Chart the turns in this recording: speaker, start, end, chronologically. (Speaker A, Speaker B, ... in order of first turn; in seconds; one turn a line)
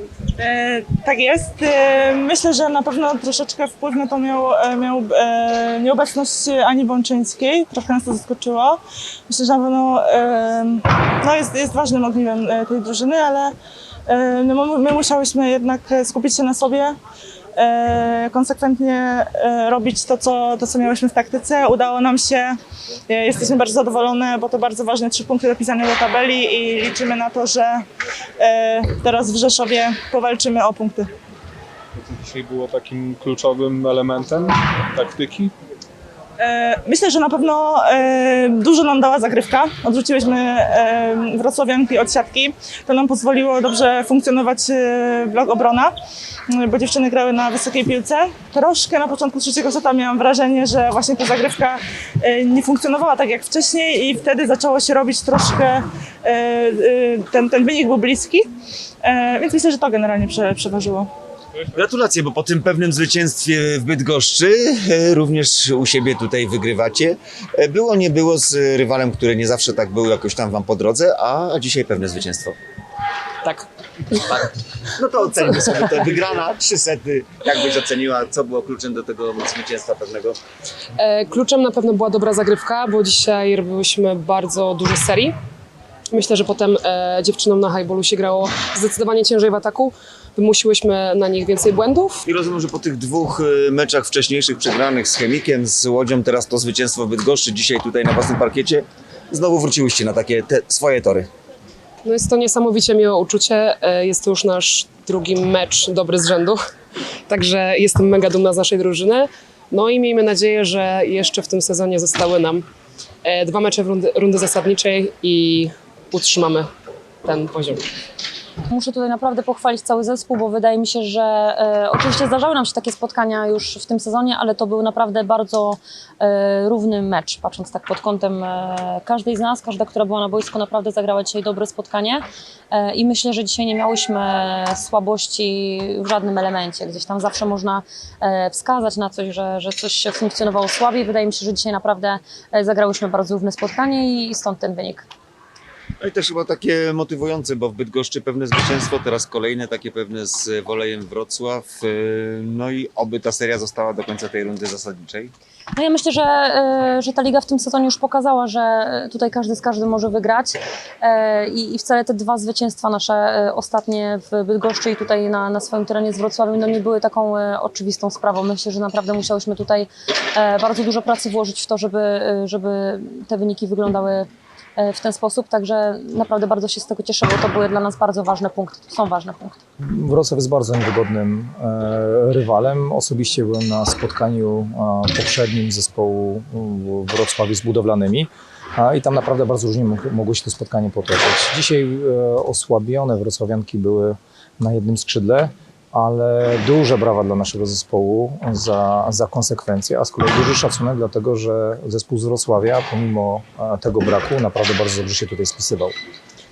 Speaker A: 0.4-13.5
Speaker A: 14.1-17.0
Speaker A: 17.6-22.6
Speaker A: 23.1-27.8
Speaker A: 28.4-31.1
Speaker B: 32.0-35.5
Speaker A: 36.4-46.0
Speaker A: 46.5-58.5
Speaker A: 59.0-61.1
Speaker C: 61.7-72.6
Speaker C: 74.1-80.4
Speaker D: 81.0-85.3
Speaker D: 86.1-92.2
Speaker C: 92.3-101.3
Speaker D: 102.0-106.6
Speaker D: 107.3-112.7
Speaker D: 113.2-116.7
Speaker D: 117.2-117.8
Speaker E: 118.7-145.1
Speaker C: 146.0-155.3
Speaker E: 155.8-179.6
Speaker F: 179.8-205.9